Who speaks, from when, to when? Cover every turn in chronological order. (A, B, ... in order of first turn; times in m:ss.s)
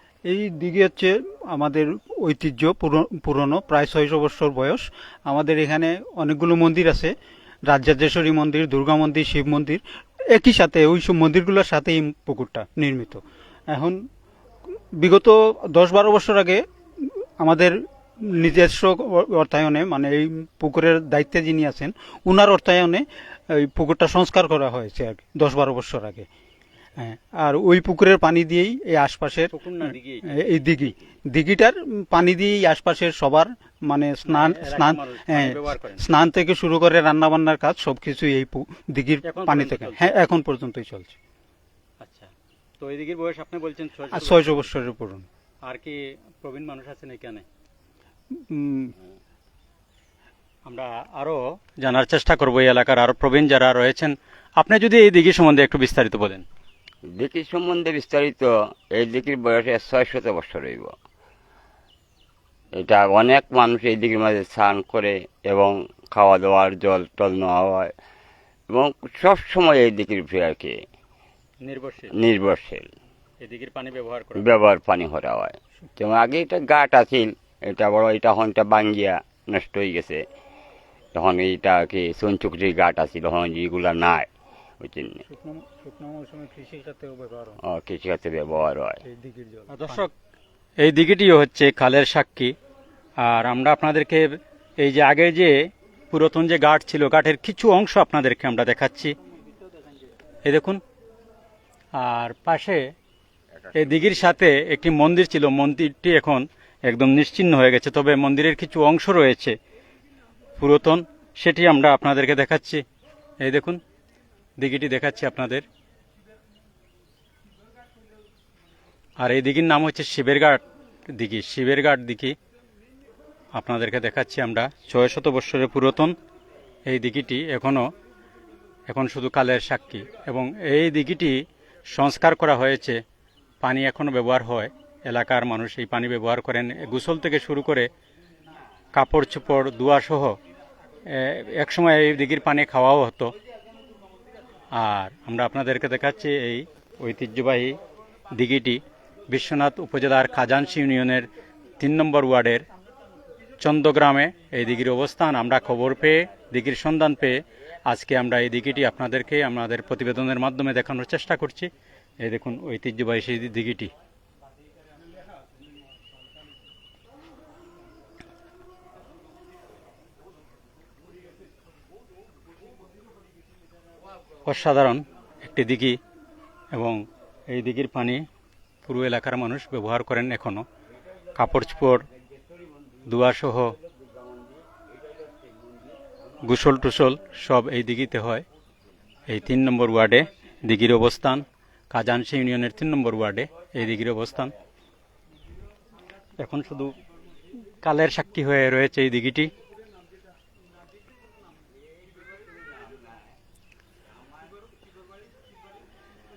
0:00.2-0:07.1 A
0:07.7-0:14.0 A
0:14.7-0:26.2 A
0:27.0-0:41.2 A
0:29.5-0:30.3 B
0:34.3-0:36.0 B
0:39.2-0:40.2 B
0:42.0-0:44.6 B
0:44.1-0:45.3 A
0:45.6-0:47.4 B
0:48.4-0:48.9 A
0:50.6-0:56.4 B
0:57.2-1:00.9 C
1:02.8-1:07.9 C
1:08.7-1:10.8 C
1:11.6-1:12.1 B
1:12.1-1:12.9 C
1:13.4-1:14.5 B
1:14.4-1:20.2 C
1:21.1-1:24.3 C
1:24.8-1:25.2 C
1:25.2-1:27.6 A
1:27.6-1:29.0 C
1:29.0-1:30.1 A
1:29.7-1:30.1 B
1:30.8-1:32.5 B
1:33.2-1:35.6 B
1:36.1-1:39.1 B
1:40.4-1:40.8 B
1:42.0-1:42.8 B
1:43.7-1:49.6 B
1:50.6-1:52.8 B
1:53.4-1:53.8 B
1:54.6-1:55.6 B
1:59.2-2:02.4 B
2:03.5-2:06.1 B
2:06.9-2:07.9 B
2:08.9-2:13.0 B
2:13.6-2:17.9 B
2:18.9-2:20.4 B
2:21.0-2:23.3 B
2:24.7-2:27.8 B
2:28.3-2:31.3 B
2:31.8-2:32.6 B
2:33.6-2:41.7 B
2:42.2-2:43.9 B
2:54.4-2:56.0 B
2:56.7-2:58.2 B
2:58.8-3:00.6 B
3:01.4-3:02.0 B
3:03.1-3:03.7 B
3:06.4-3:08.4 B
3:09.3-3:14.5 B
3:16.4-3:16.9 B
3:17.8-3:19.5 B